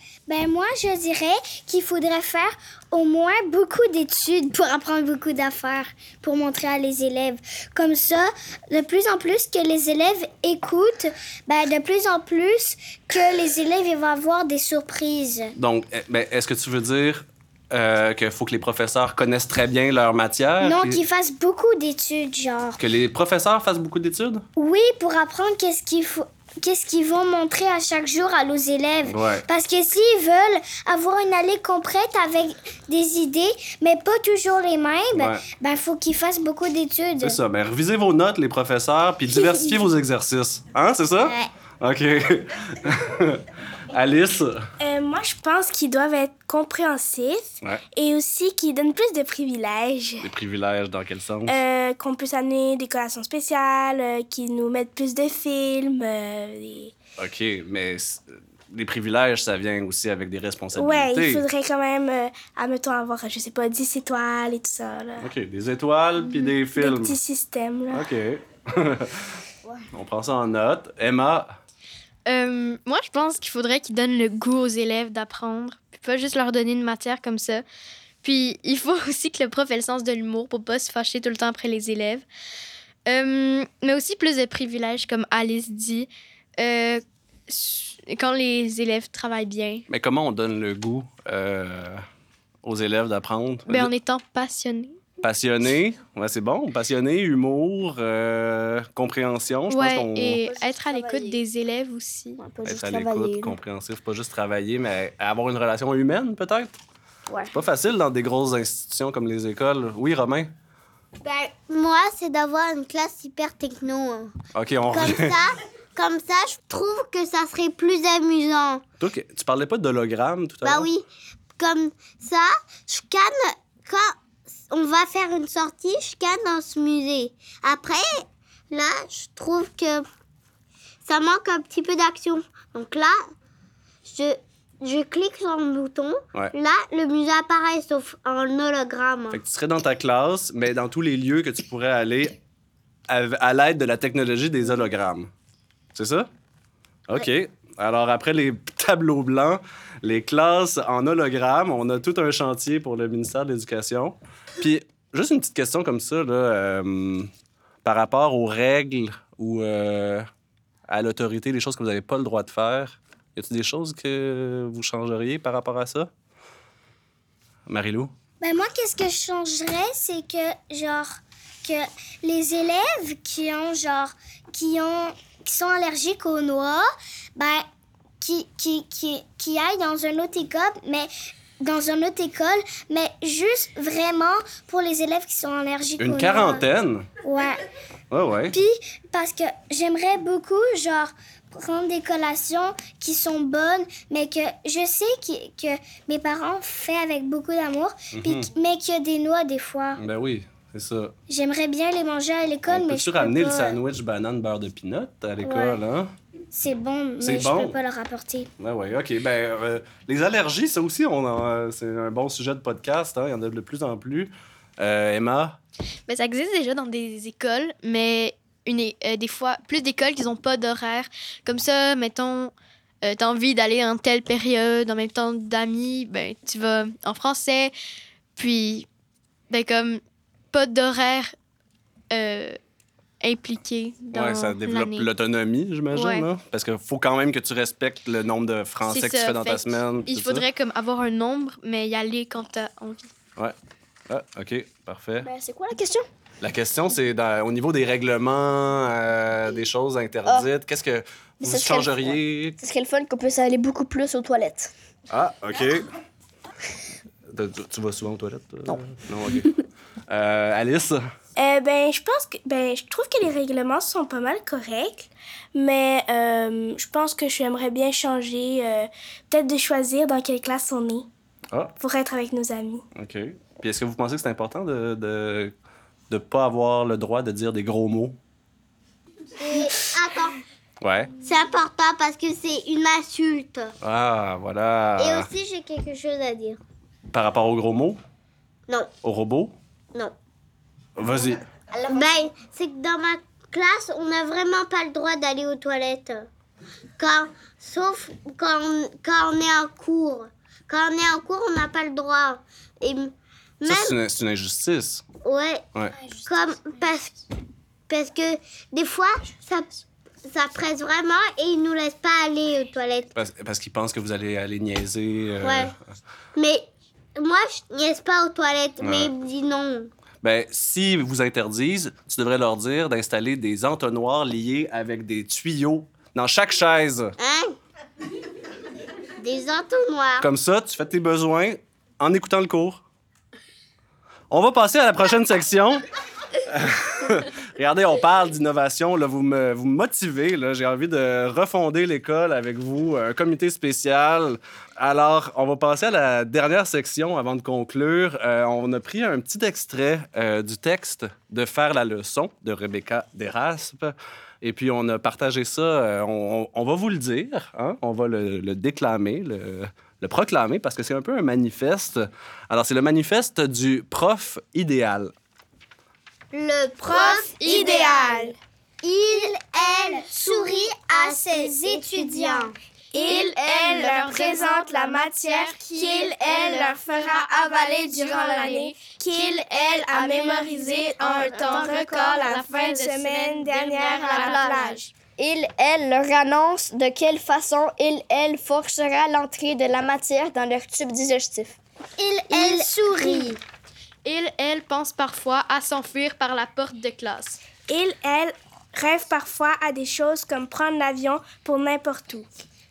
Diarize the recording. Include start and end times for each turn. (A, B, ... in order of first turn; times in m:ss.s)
0:00.3-0:15.6 A
0:15.6-0:21.0 B
0:20.6-0:22.8 A
0:22.8-0:24.4 B
0:24.6-0:37.4 A
0:29.0-0:29.4 B
0:35.1-0:35.4 B
0:37.2-0:44.6 B
0:44.8-0:50.3 C
0:50.2-0:51.6 B
0:51.5-0:56.9 C
0:57.2-1:01.4 B
1:00.7-1:05.3 C
1:05.2-1:07.2 B
1:06.3-1:08.1 C
1:07.9-1:09.4 B
1:09.9-1:11.5 B
1:12.3-1:17.6 D
1:18.2-1:22.2 D
1:23.1-1:29.8 D
1:29.9-1:32.0 B
1:32.6-1:33.9 B
1:33.7-1:35.0 D
1:35.2-1:40.4 B
1:39.7-1:42.4 D
1:40.4-1:41.4 E
1:42.4-1:43.5 E
1:42.6-1:46.8 B
1:47.4-1:50.5 B
1:51.2-1:54.3 F
1:54.5-1:55.4 B
1:54.9-1:58.8 F
1:59.0-2:00.9 B
2:00.6-2:01.0 F
2:01.6-2:04.2 F
2:04.7-2:10.0 F
2:11.0-2:13.2 F
2:14.0-2:19.4 F
2:19.3-2:22.4 B
2:23.1-2:25.3 B
2:25.9-2:26.3 B
2:27.1-2:37.3 B
2:37.8-2:40.3 B
2:40.9-2:46.1 B
2:47.7-2:48.1 B
2:48.4-2:51.1 A
2:51.6-2:57.6 A
2:58.2-3:01.1 A
3:01.6-3:06.6 A
3:06.0-3:07.1 B
3:07.2-3:07.6 A
3:08.1-3:08.6 B
3:08.5-3:20.0 A
3:18.1-3:18.5 B
3:20.0-3:21.1 B
3:21.3-3:23.8 A
3:22.7-3:26.1 B
3:25.4-3:25.8 A
3:26.5-3:28.5 A
3:27.2-3:27.8 B
3:28.6-3:35.6 B
3:36.1-3:47.7 D
3:48.4-3:48.9 D
3:49.5-3:50.0 D
3:50.5-3:51.3 D
3:52.1-3:52.6 D
3:53.2-3:55.1 D
3:54.1-4:00.4 B
3:55.9-3:56.3 D
3:58.8-4:03.1 D
4:04.1-4:05.3 B
4:05.2-4:06.0 E
4:06.4-4:12.6 B
4:11.4-4:14.7 E
4:15.1-4:15.9 B
4:17.3-4:19.5 B
4:19.3-4:19.6 E
4:20.1-4:21.1 B
4:21.4-4:31.1 C
4:31.8-4:32.8 C
4:32.9-4:35.5 B
4:36.1-4:38.2 B
4:39.4-4:40.4 F
4:40.8-4:41.1 B
4:41.2-4:43.7 F
4:43.8-4:45.3 B
4:45.0-4:46.6 F
4:47.1-4:48.0 B
4:49.0-4:49.5 B
4:51.0-4:51.4 B
4:51.8-4:56.3 F
4:57.0-5:04.0 F
5:03.6-5:05.0 B
5:05.2-5:05.6 F
5:06.2-5:07.2 F
5:07.9-5:13.1 F
5:13.1-5:15.9 B
5:15.4-5:15.7 F
5:16.4-5:19.9 F
5:18.8-5:19.1 B
5:20.2-5:27.1 B
5:27.2-5:27.5 F
5:29.2-5:30.2 F
5:30.2-5:32.8 B
5:34.3-5:35.8 B
5:36.4-6:05.1 B
6:06.3-6:08.0 F
6:06.8-6:08.3 C
6:08.8-6:12.6 F
6:10.9-6:12.5 A
6:12.9-6:24.9 C
6:13.0-6:15.4 D
6:16.0-6:16.4 D
6:18.0-6:18.4 D
6:20.2-6:20.4 E
6:21.0-6:24.9 D
6:24.0-6:31.6 E
6:32.3-6:33.3 E
6:32.3-6:33.3 A
6:34.0-6:37.4 D
6:37.7-6:42.3 C